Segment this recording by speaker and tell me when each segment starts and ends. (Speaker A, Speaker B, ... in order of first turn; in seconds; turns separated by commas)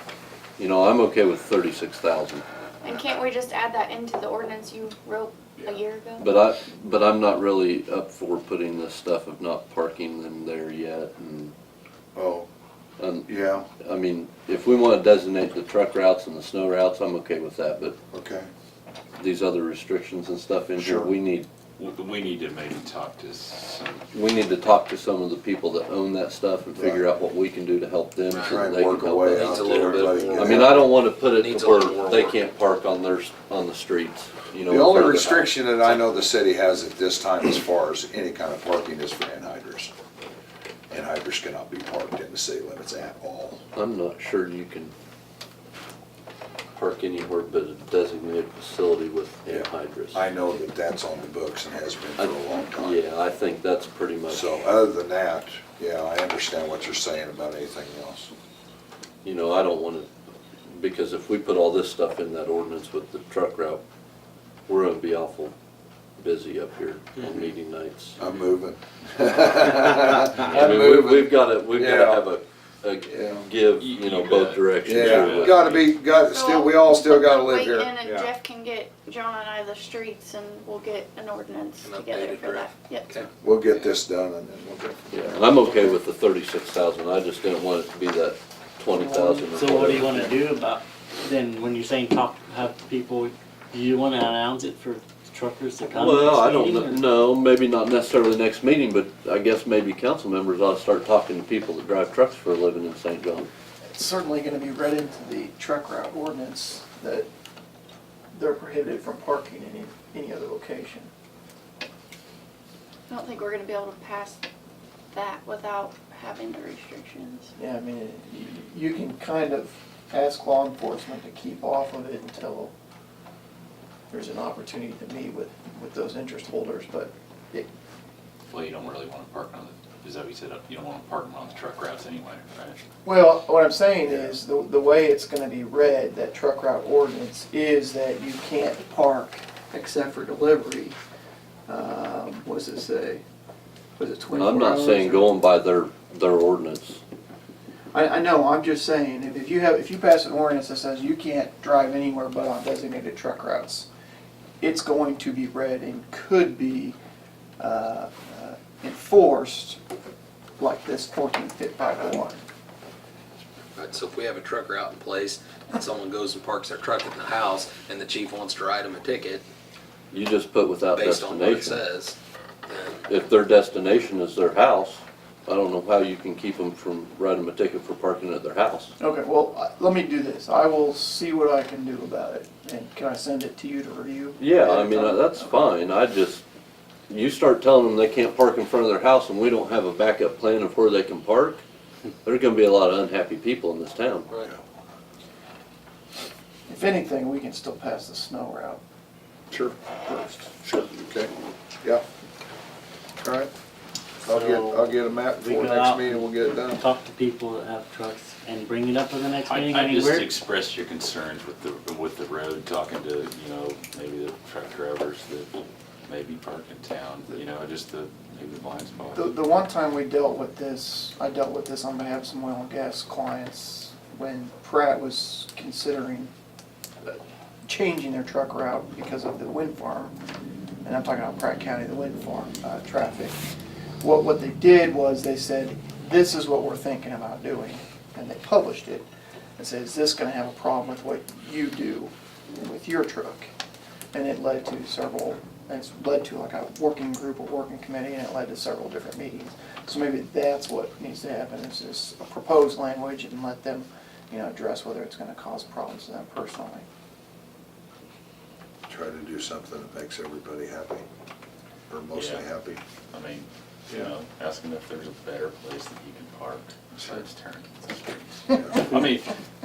Speaker A: 0.6-2.4, Speaker B: 2.8-6.3, Speaker A: 6.2-11.5, Speaker C: 12.1-12.5, Speaker A: 13.0-17.9, Speaker C: 13.3-13.7, Speaker C: 18.1-18.5, Speaker A: 19.2-21.5, Speaker C: 20.8-21.1, Speaker D: 21.8-24.0, Speaker A: 24.1-35.6, Speaker C: 26.8-27.1, Speaker E: 28.3-28.7, Speaker C: 28.5-30.9, Speaker E: 29.2-32.5, Speaker C: 34.7-39.9, Speaker C: 40.9-43.6, Speaker A: 43.7-44.9, Speaker A: 46.7-50.2, Speaker C: 49.5-53.0, Speaker A: 52.2-54.5, Speaker C: 54.3-58.3, Speaker A: 59.2-60.1, Speaker A: 60.7-63.8, Speaker A: 64.7-65.5, Speaker A: 66.2-68.2, Speaker C: 68.2-72.3, Speaker A: 70.4-75.7, Speaker C: 73.1-73.5, Speaker D: 73.8-75.9, Speaker C: 74.8-78.2, Speaker B: 76.3-83.1, Speaker E: 81.8-83.9, Speaker C: 83.4-85.0, Speaker A: 85.1-90.3, Speaker F: 89.0-97.1, Speaker A: 95.8-103.5, Speaker G: 103.9-107.3, Speaker G: 108.3-111.1, Speaker B: 113.1-114.4, Speaker B: 115.1-117.5, Speaker G: 117.6-122.7, Speaker G: 124.1-127.7, Speaker D: 128.5-132.8, Speaker G: 133.0-141.0, Speaker C: 134.1-134.4, Speaker G: 141.7-143.2, Speaker G: 144.0-145.3, Speaker A: 144.3-147.0, Speaker G: 147.9-153.9, Speaker G: 154.6-157.0, Speaker G: 157.6-159.8, Speaker G: 160.6-162.5, Speaker E: 163.7-169.4, Speaker A: 170.1-171.8, Speaker E: 170.9-172.2, Speaker E: 172.7-173.0, Speaker A: 173.1-178.9, Speaker G: 179.0-185.7, Speaker A: 184.4-186.4, Speaker A: 187.1-191.6, Speaker A: 192.2-194.3, Speaker G: 196.7-198.8, Speaker G: 199.9-200.6, Speaker C: 200.6-201.3, Speaker C: 203.2-203.5, Speaker C: 204.2-206.8, Speaker F: 204.2-210.3, Speaker D: 209.4-219.2, Speaker G: 219.1-226.3, Speaker G: 227.0-230.2, Speaker G: 230.8-233.4, Speaker G: 234.0-239.1, Speaker G: 239.6-243.5, Speaker G: 244.1-256.9, Speaker C: 258.9-261.1, Speaker C: 261.9-262.8, Speaker D: 262.1-262.5, Speaker D: 263.1-269.3